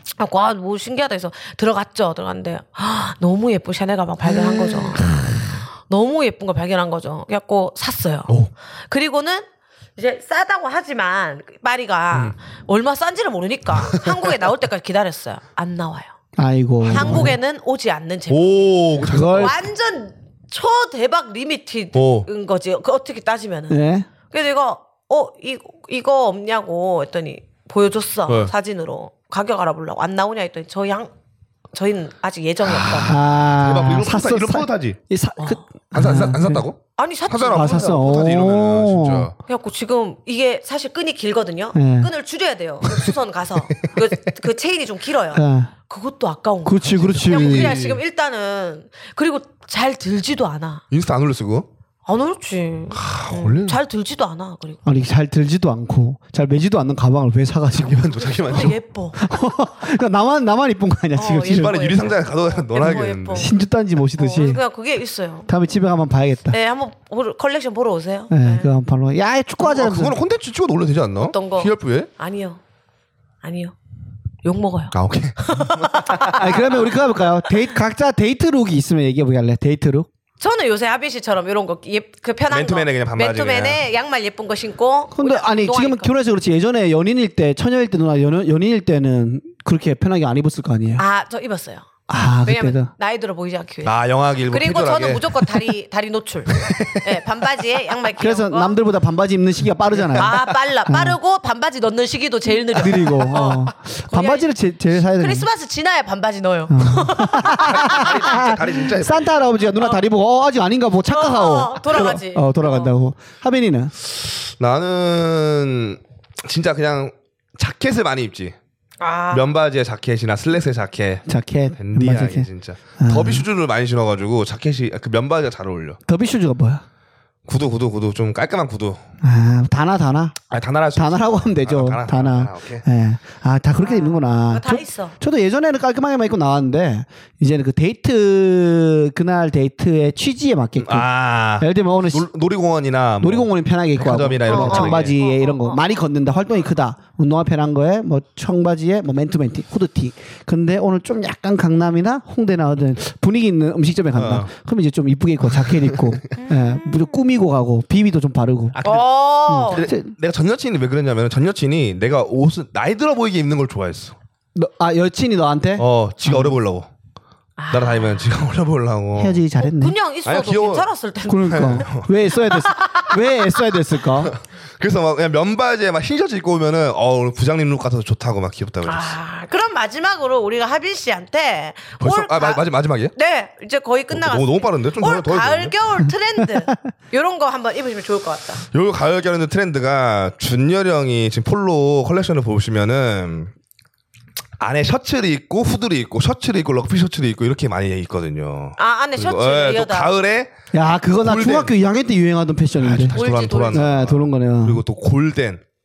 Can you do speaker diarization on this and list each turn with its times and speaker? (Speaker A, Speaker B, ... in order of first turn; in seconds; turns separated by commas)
Speaker A: 0.2-9.4, Speaker B: 4.3-5.5, Speaker A: 10.0-16.1, Speaker B: 13.8-14.1, Speaker C: 16.4-17.3, Speaker A: 16.9-31.1, Speaker B: 16.9-17.3, Speaker B: 18.3-19.6, Speaker C: 19.0-19.6, Speaker B: 21.9-22.3, Speaker C: 23.7-24.1, Speaker B: 28.3-28.5, Speaker A: 31.7-33.2, Speaker B: 32.6-35.0, Speaker C: 33.0-36.6, Speaker B: 35.9-39.3, Speaker A: 37.0-38.3, Speaker C: 37.5-39.3, Speaker A: 39.5-50.8, Speaker C: 41.7-42.1, Speaker C: 45.3-45.7, Speaker C: 46.6-47.8, Speaker B: 46.8-48.0, Speaker B: 50.9-51.7, Speaker A: 52.0-54.8, Speaker B: 52.9-53.8, Speaker C: 54.8-58.2, Speaker B: 57.8-58.8, Speaker A: 58.5-59.2, Speaker C: 59.2-61.8, Speaker A: 61.1-63.5, Speaker B: 61.4-63.5, Speaker C: 63.3-64.6, Speaker A: 64.2-65.5, Speaker C: 65.5-66.5, Speaker A: 66.5-68.7, Speaker C: 68.3-70.2, Speaker B: 69.6-72.1, Speaker A: 71.3-72.6, Speaker A: 73.4-73.7, Speaker A: 74.4-76.9, Speaker B: 74.9-76.4, Speaker C: 76.2-80.1, Speaker A: 80.4-86.1, Speaker B: 82.5-83.8, Speaker C: 85.1-91.0, Speaker A: 91.0-91.9, Speaker C: 92.1-92.9, Speaker A: 92.4-93.9, Speaker B: 93.8-95.7, Speaker A: 94.5-98.7, Speaker B: 96.5-97.0, Speaker C: 98.2-101.2, Speaker A: 100.1-104.5, Speaker C: 102.7-105.5, Speaker A: 105.1-108.6, Speaker C: 106.7-113.9, Speaker B: 107.4-109.4, Speaker A: 109.8-110.0, Speaker A: 111.0-112.9, Speaker B: 114.5-118.5, Speaker A: 119.0-119.5, Speaker B: 119.3-126.0, Speaker C: 121.3-123.5, Speaker C: 126.1-126.8, Speaker B: 127.5-129.0, Speaker C: 129.2-130.4, Speaker B: 130.5-132.8, Speaker C: 130.9-142.3, Speaker A: 133.8-135.1, Speaker B: 140.8-145.1, Speaker C: 143.2-158.7, Speaker A: 144.4-146.0, Speaker B: 154.1-154.5, Speaker A: 156.4-157.1, Speaker B: 158.8-159.1, Speaker A: 158.8-159.9, Speaker C: 159.5-160.1, Speaker B: 159.6-164.1, Speaker C: 164.6-166.6, Speaker B: 165.8-166.9, Speaker A: 167.6-168.4, Speaker B: 167.7-169.4, Speaker C: 169.2-169.9, Speaker A: 169.6-171.9, Speaker B: 170.2-170.9, Speaker C: 171.3-174.3, Speaker B: 171.4-172.1, Speaker A: 172.5-173.2, Speaker B: 174.2-179.2, Speaker A: 178.8-188.6, Speaker B: 182.0-183.1, Speaker B: 184.1-185.8, Speaker B: 188.7-193.5, Speaker B: 194.6-200.5, Speaker A: 198.8-200.1, Speaker C: 200.7-203.2, Speaker B: 201.2-201.7, Speaker B: 202.8-205.6, Speaker A: 203.1-203.9, Speaker C: 203.7-204.8